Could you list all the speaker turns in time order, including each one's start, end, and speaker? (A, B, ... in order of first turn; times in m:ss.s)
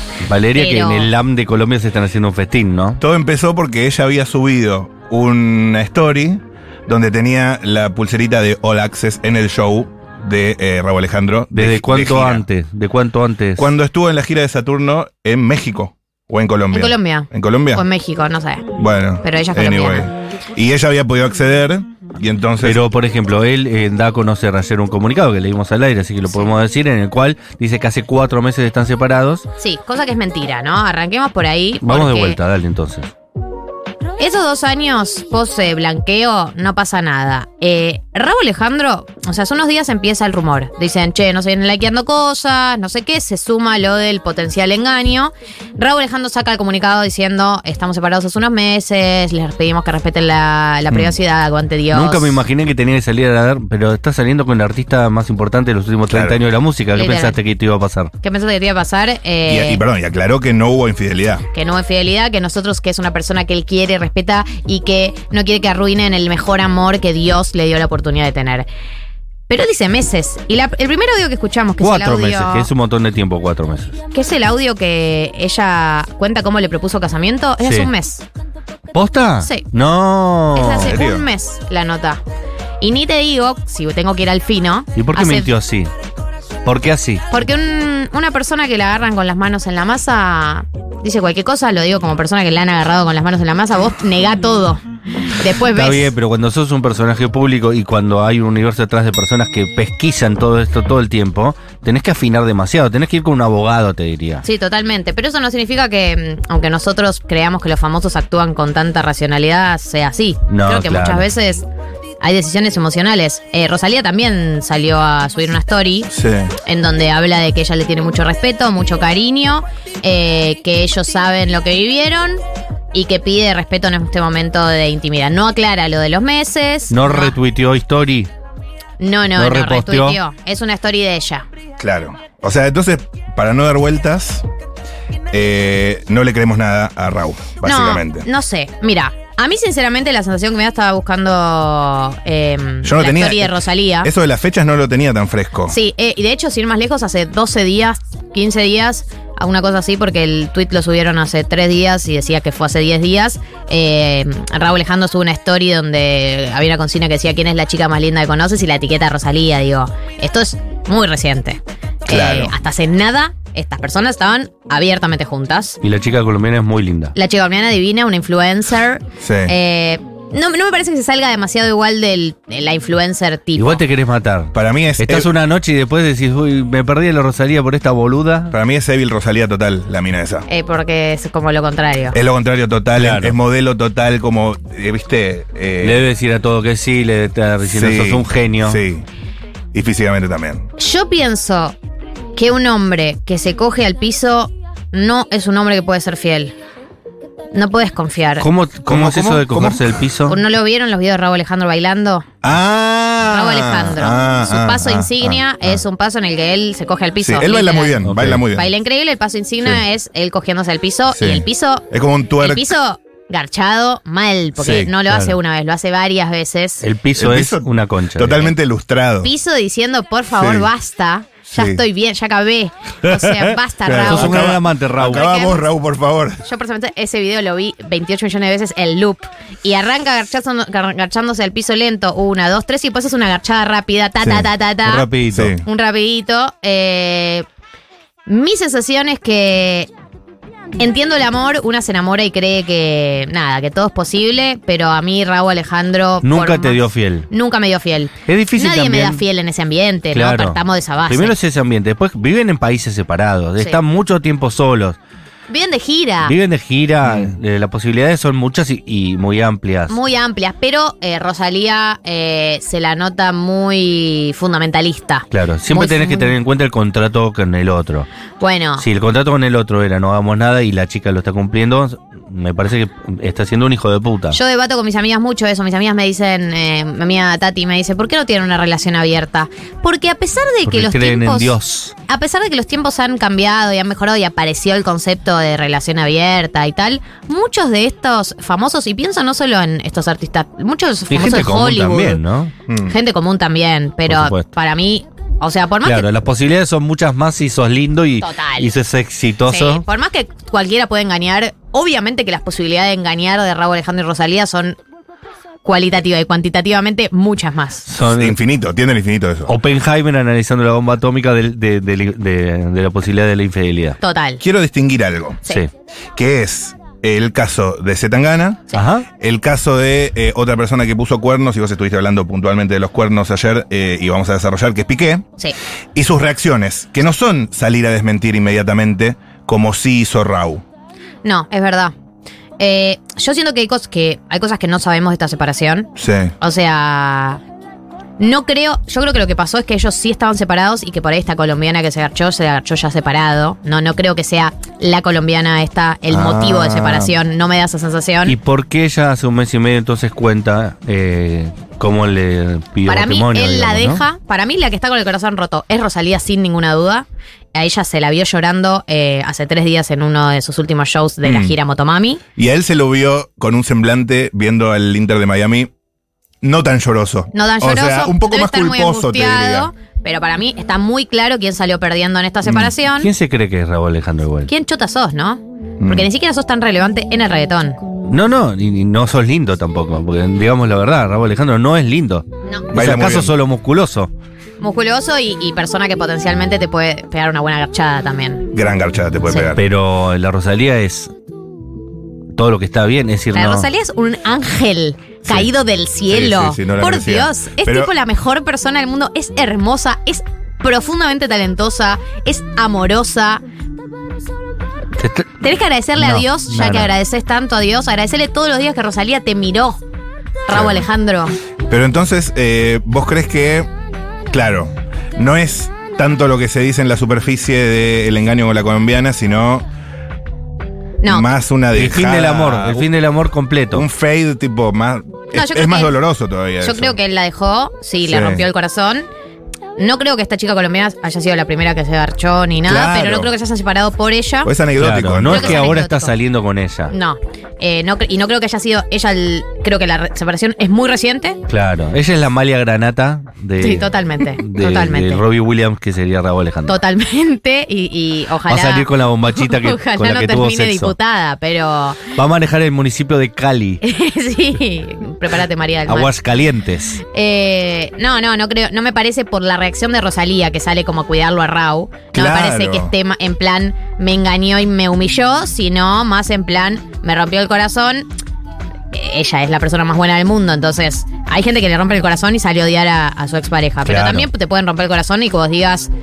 0:00.2-0:03.0 A
0:00.5-0:01.1 B
0:03.0-0:12.4 C
0:11.5-0:13.7 A
0:13.6-0:17.8 C
0:16.7-0:18.7 B
0:18.8-0:22.8 C
0:19.2-0:20.1 B
0:22.6-0:29.5 A
0:29.6-0:32.4 B
0:31.8-0:33.1 A
0:34.2-0:52.4 B
0:51.9-0:58.1 A
0:56.1-0:56.4 C
0:56.9-0:57.4 B
0:58.2-0:59.8 B
0:59.4-1:01.4 C
1:01.5-1:08.7 B
1:09.5-1:12.7 B
1:11.8-1:14.0 A
1:14.1-1:18.2 B
1:17.6-1:17.9 A
1:18.9-1:21.0 A
1:19.4-1:19.6 B
1:20.5-1:22.2 B
1:20.8-1:21.2 C
1:22.8-1:25.5 B
1:25.0-1:25.9 A
1:26.6-1:27.2 A
1:27.3-1:36.1 B
1:35.7-1:44.4 A
1:44.4-1:51.6 B
1:50.5-1:51.3 A
1:52.2-1:56.1 B
1:56.1-1:56.5 C
1:56.6-2:02.4 B
2:02.9-2:07.4 B
2:06.9-2:08.3 A
2:09.0-2:11.4 B
2:09.4-2:10.2 A
2:11.8-2:14.4 C
2:15.3-2:18.2 C
2:17.6-2:24.1 B
2:22.8-2:25.8 C
2:25.7-2:45.8 B
2:42.1-2:42.5 C
2:45.8-2:47.1 A
2:47.1-2:53.8 B
2:49.2-2:49.5 C
2:53.6-2:58.5 A
2:54.5-2:55.3 C
2:58.5-3:00.4 C
3:00.5-3:02.2 B
3:02.1-3:06.0 C
3:03.0-3:03.4 A
3:05.8-3:08.8 A
3:07.7-3:09.0 C
3:09.7-3:10.6 C
3:10.8-3:11.7 B
3:12.4-3:16.5 B
3:17.5-3:18.5 B
3:18.4-3:20.4 A
3:18.8-3:20.0 C
3:20.3-3:22.3 B
3:22.4-3:25.8 C
3:23.2-3:31.8 B
3:27.2-3:28.7 C
3:28.0-3:28.4 A
3:31.1-3:32.7 C
3:32.4-3:36.8 B
3:34.6-3:35.4 A
3:36.8-3:38.5 A
3:37.2-3:39.3 C
3:39.2-3:44.6 B
3:40.3-3:40.7 C
3:41.5-3:41.8 C
3:43.8-3:46.4 C
3:44.0-3:45.2 A
3:45.1-3:45.7 B
3:46.4-3:55.1 B
3:54.2-3:54.5 C
3:54.8-3:55.5 A
3:55.3-3:55.6 C
3:55.6-3:57.4 B
3:58.3-3:59.9 B
4:00.8-4:11.3 B
4:06.2-4:07.3 A
4:08.2-4:09.2 A
4:10.1-4:15.0 A
4:15.5-4:16.3 B
4:16.2-4:19.9 A
4:17.0-4:17.3 C
4:19.9-4:26.3 B
4:25.3-4:28.1 A
4:28.4-4:28.8 B
4:28.8-4:34.4 A
4:34.3-4:41.5 B
4:40.6-4:41.9 A
4:42.1-4:52.2 B
4:51.1-4:52.5 A
4:52.7-4:52.9 C
4:52.8-4:56.1 B
4:54.1-4:54.5 A
4:55.8-4:59.8 A
4:58.2-4:58.7 B
4:59.5-5:04.8 B
5:05.6-5:07.9 B
5:07.9-5:08.4 A
5:08.0-5:09.5 C
5:09.5-5:14.0 A
5:14.0-5:14.4 B
5:14.4-5:15.4 C
5:16.2-5:18.6 C
5:18.7-5:19.0 A
5:19.2-5:25.2 C
5:25.9-5:30.6 C
5:31.2-5:31.9 B
5:32.6-5:37.4 B
5:36.0-5:36.3 C
5:38.2-5:48.4 B
5:46.1-5:47.1 C
5:48.2-5:54.0 A
5:52.8-6:02.2 B
6:01.2-6:01.6 C
6:02.4-6:05.7 C
6:06.4-6:09.7 C
6:07.3-6:13.1 B
6:13.0-6:14.5 A
6:14.5-6:17.8 B
6:15.8-6:16.1 C
6:18.1-6:24.1 A
6:22.7-6:23.3 C
6:24.6-6:28.5 B
6:28.5-6:29.6 C
6:29.5-6:31.1 A
6:32.3-6:33.7 A
6:33.3-6:43.4 B
6:36.1-6:37.9 C
6:45.0-6:45.4 A
6:45.4-6:49.8 B
6:46.0-6:46.9 A
6:50.5-6:51.3 B
6:50.5-6:50.8 C
6:51.7-6:53.7 C
6:54.3-6:59.6 C
7:01.0-7:01.3 B
7:01.0-7:02.9 C
7:01.7-7:03.8 A
7:03.7-7:07.0 C
7:05.3-7:05.9 B
7:06.6-7:09.1 B
7:08.0-7:08.4 C
7:09.8-7:14.5 B
7:12.6-7:13.3 C
7:14.4-7:15.7 C
7:14.8-7:16.9 A
7:15.3-7:16.1 B
7:16.9-7:21.4 B
7:21.5-7:26.8 A
7:23.6-7:25.2 B
7:26.6-7:32.1 B
7:28.5-7:30.9 A
7:32.1-7:33.8 A
7:33.8-7:36.1 B
7:35.9-7:37.0 A
7:37.0-7:48.1 B
7:42.1-7:42.9 C
7:48.9-7:55.9 B
7:53.8-7:54.2 A